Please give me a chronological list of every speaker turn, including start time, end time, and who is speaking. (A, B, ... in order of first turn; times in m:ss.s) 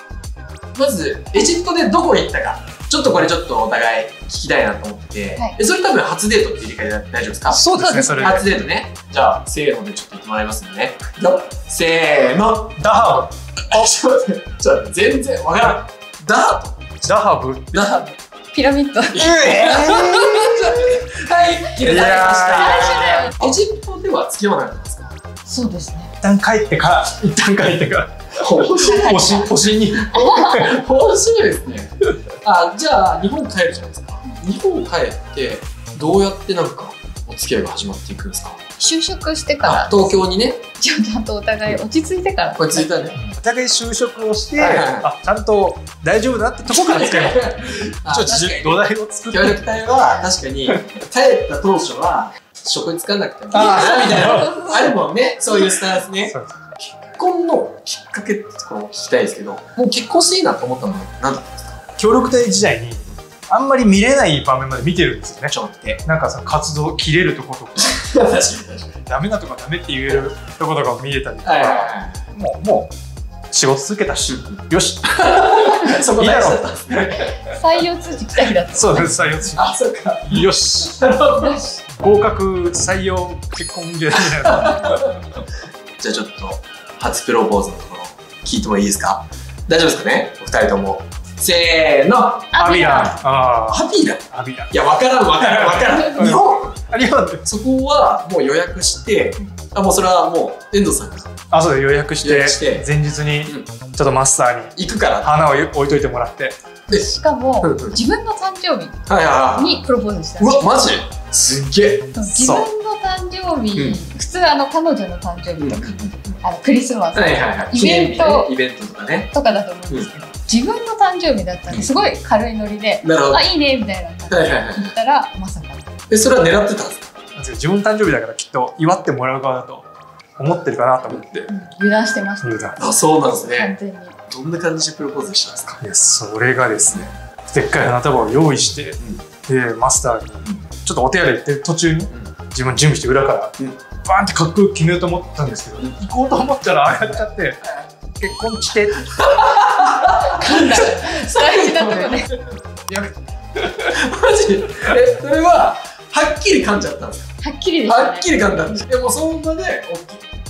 0:00.7-0:12.9 A
0:07.5-0:08.5 B
0:07.7-0:08.4 C
0:12.8-0:13.9 B
0:13.7-0:17.2 A
0:17.0-0:17.9 B
0:17.7-0:18.1 A
0:17.8-0:19.3 C
0:19.1-0:25.2 A
0:19.1-0:20.6 B
0:21.8-0:23.1 B
0:22.4-0:23.5 C
0:25.5-0:26.1 C
0:26.2-0:30.7 B
0:28.4-0:38.6 A
0:28.8-0:29.5 C
0:30.1-0:30.7 C
0:38.8-0:40.2 C
0:39.6-0:40.6 A
0:40.8-0:42.9 C
0:42.6-0:43.2 A
0:43.2-0:49.7 B
0:44.6-0:45.1 A
0:46.7-1:01.8 A
0:53.5-0:54.6 B
0:53.6-0:54.8 C
0:56.3-0:56.6 B
1:02.0-1:05.5 B
1:05.5-1:06.0 A
1:06.0-1:08.0 B
1:07.8-1:09.0 A
1:09.1-1:12.9 B
1:11.4-1:12.2 A
1:13.5-1:17.3 B
1:14.3-1:14.5 A
1:15.1-1:17.3 A
1:17.2-1:19.2 C
1:18.7-1:19.7 B
1:19.5-1:21.6 A
1:20.3-1:21.0 B
1:21.4-1:21.8 C
1:21.9-1:25.0 B
1:24.4-1:25.0 A
1:26.0-1:32.5 A
1:32.5-1:33.2 C
1:32.6-1:34.7 B
1:33.7-1:36.8 A
1:35.4-1:37.4 B
1:37.4-1:41.3 A
1:41.5-1:46.6 B
1:42.2-1:42.8 A
1:44.8-1:45.3 A
1:46.9-1:50.9 C
1:47.6-1:48.0 A
1:49.1-1:49.8 A
1:50.4-1:52.1 A
1:52.1-1:55.9 C
1:52.3-1:52.7 B
1:53.7-1:54.0 A
1:55.6-1:56.4 A
1:56.4-1:58.5 C
1:57.1-1:59.3 A
1:59.3-2:05.9 C
2:01.7-2:02.0 A
2:03.0-2:03.4 A
2:04.3-2:04.9 A
2:06.1-2:07.1 A
2:07.4-2:11.5 B
2:11.5-2:12.5 C
2:12.4-2:12.8 B
2:12.8-2:13.8 A
2:13.3-2:14.1 C
2:14.3-2:15.8 A
2:15.8-2:27.6 B
2:27.6-2:27.9 A
2:28.1-2:29.3 B
2:29.1-2:32.8 A
2:30.0-2:32.3 C
2:32.9-2:33.1 B
2:33.6-2:37.3 A
2:37.4-2:38.6 C
2:37.9-2:40.3 A